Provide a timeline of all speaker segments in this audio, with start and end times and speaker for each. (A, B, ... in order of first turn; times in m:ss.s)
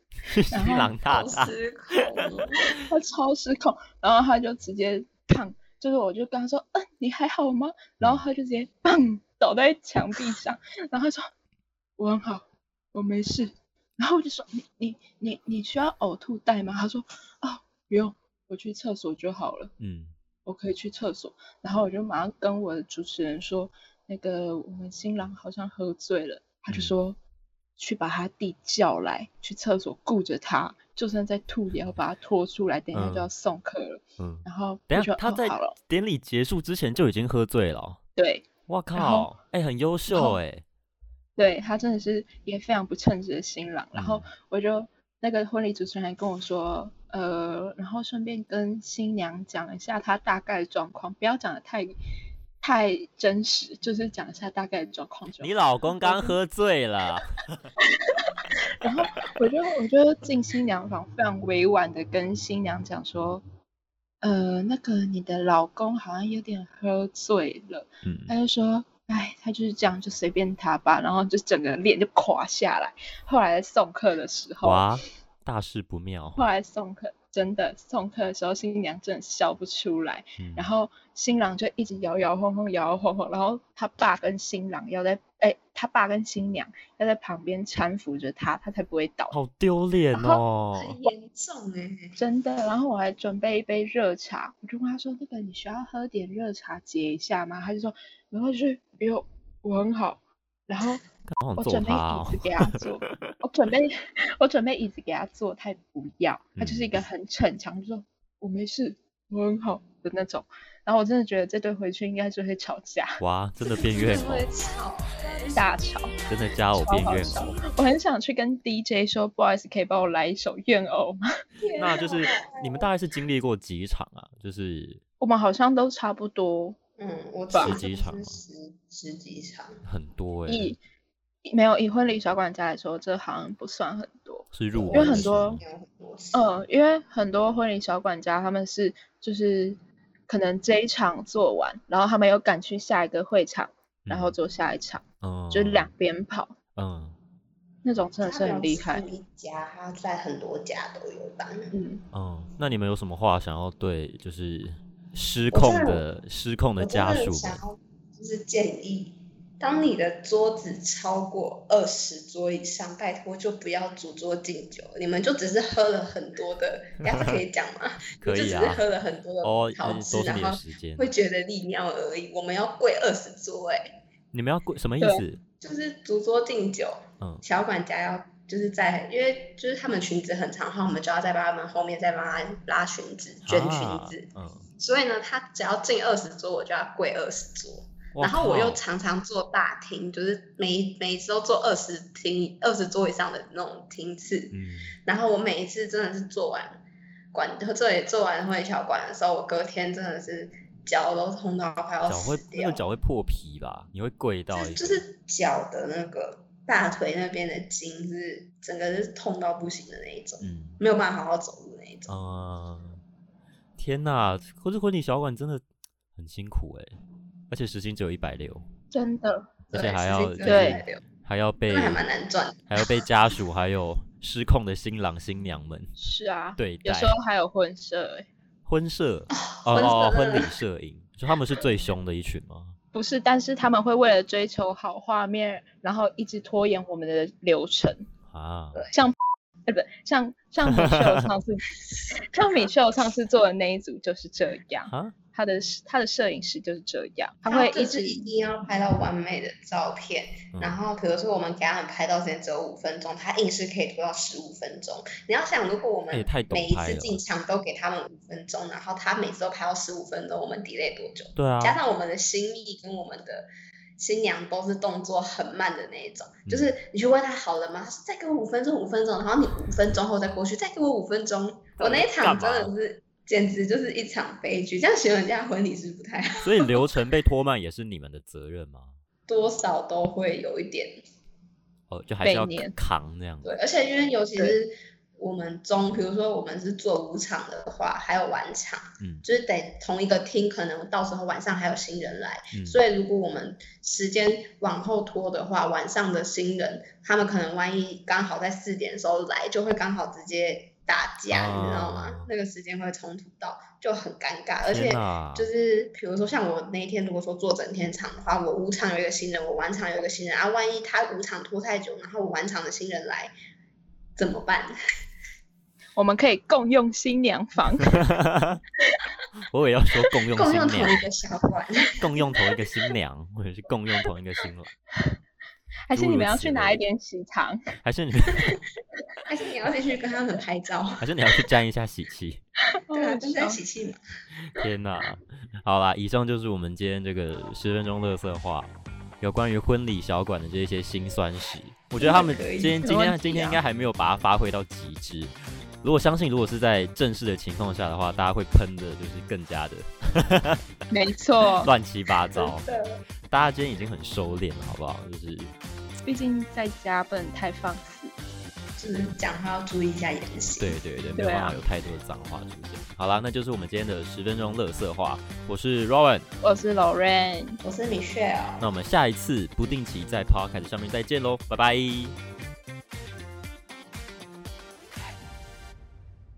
0:00.3-0:02.4 A
0:00.5-0:00.9 B
0:01.0-0:02.8 C
0:02.9-0:11.3 B
0:12.0-0:19.7 B
0:19.8-0:20.1 A
0:20.4-0:27.2 B
0:26.7-0:26.9 A
0:27.8-0:35.7 B
0:32.9-0:33.3 A
0:34.2-0:38.0 A
0:38.2-0:39.3 B
0:38.7-0:40.6 A
0:40.1-0:40.4 B
0:41.4-0:51.9 B
0:43.9-0:44.3 A
0:52.6-0:56.4 B
0:55.4-0:57.6 A
0:57.8-1:03.4 B
1:04.2-1:14.9 B
1:08.0-1:08.3 A
1:14.6-1:16.4 A
1:16.4-1:29.4 B
1:20.4-1:20.7 A
1:29.3-1:31.0 A
1:30.1-1:30.4 B
1:30.8-1:32.2 C
1:32.2-1:41.0 B
1:41.3-1:43.3 A
1:41.6-1:53.2 B
1:46.6-1:46.9 A
1:53.2-1:54.5 A
1:53.8-1:55.7 C
1:55.5-1:56.1 B
1:56.3-1:57.6 A
1:56.8-2:01.2 B
1:57.0-1:57.6 C
2:01.6-2:02.9 C
2:01.8-2:05.0 A
2:05.2-2:06.8 B
2:07.0-2:09.8 C
2:07.5-2:07.8 B
2:07.6-2:08.4 A
2:09.8-2:10.8 A
2:10.5-2:10.8 B
2:11.4-2:15.6 B
2:14.5-2:15.6 A
2:14.7-2:16.5 C
2:16.3-2:26.6 B
2:24.0-2:24.3 A
2:25.2-2:25.9 A
2:26.8-2:27.2 A
2:27.8-2:29.0 B
2:28.2-2:31.7 C
2:31.7-2:32.0 B
2:32.1-2:37.6 A
2:35.5-2:36.0 C
2:36.8-2:54.0 C
2:48.2-2:48.8 A
2:49.4-2:51.0 A
2:54.3-2:55.4 A
2:55.6-3:04.3 C
3:03.4-3:04.6 A
3:04.8-3:16.8 C
3:08.1-3:08.8 A
3:14.5-3:14.9 A
3:17.3-3:22.8 C
3:22.0-3:25.0 A
3:24.5-3:32.1 C
3:30.4-3:30.8 A
3:32.1-3:33.0 A
3:33.8-3:35.6 A
3:36.1-3:37.0 A
3:37.5-3:38.6 A
3:38.9-3:39.5 B
3:39.7-3:42.0 A
3:39.7-3:41.0 C
3:40.4-3:40.8 B
3:41.7-3:43.0 C
3:42.7-3:45.9 A
3:46.0-3:48.3 B
3:46.6-3:47.2 A
3:48.6-3:52.7 A
3:49.3-3:50.5 C
3:52.9-3:58.1 B
3:58.3-3:58.8 A
3:59.7-4:08.2 B
4:00.7-4:01.3 A
4:02.4-4:02.7 C
4:04.9-4:05.1 A
4:07.4-4:36.9 C
4:16.1-4:17.2 A
4:21.4-4:21.8 A
4:31.8-4:32.7 A
4:36.4-4:39.0 A
4:39.3-4:41.0 C
4:41.9-4:43.6 A
4:42.2-4:42.7 B
4:43.4-5:13.3 C
4:52.5-4:52.8 A
5:01.3-5:02.3 A
5:04.7-5:05.5 A
5:14.2-5:14.7 C
5:16.0-5:18.0 B
5:18.0-5:18.6 A
5:19.5-5:21.0 A
5:20.3-5:22.3 C
5:22.0-5:24.7 A
5:25.9-5:27.6 B
5:25.9-5:26.8 A
5:27.8-5:28.6 A
5:29.2-5:31.1 C
5:31.0-5:32.4 A
5:32.9-5:33.6 B
5:32.9-5:34.0 C
5:34.5-5:50.6 A
5:42.0-5:43.6 C
5:50.9-5:51.7 B
5:51.6-5:52.6 A
5:52.4-5:53.0 C
5:53.3-5:55.5 A
5:56.0-5:58.1 B
5:58.8-6:00.8 C
6:00.6-6:06.2 A
6:01.2-6:01.6 B
6:06.4-6:07.6 B
6:07.6-6:08.6 C
6:08.6-6:12.2 A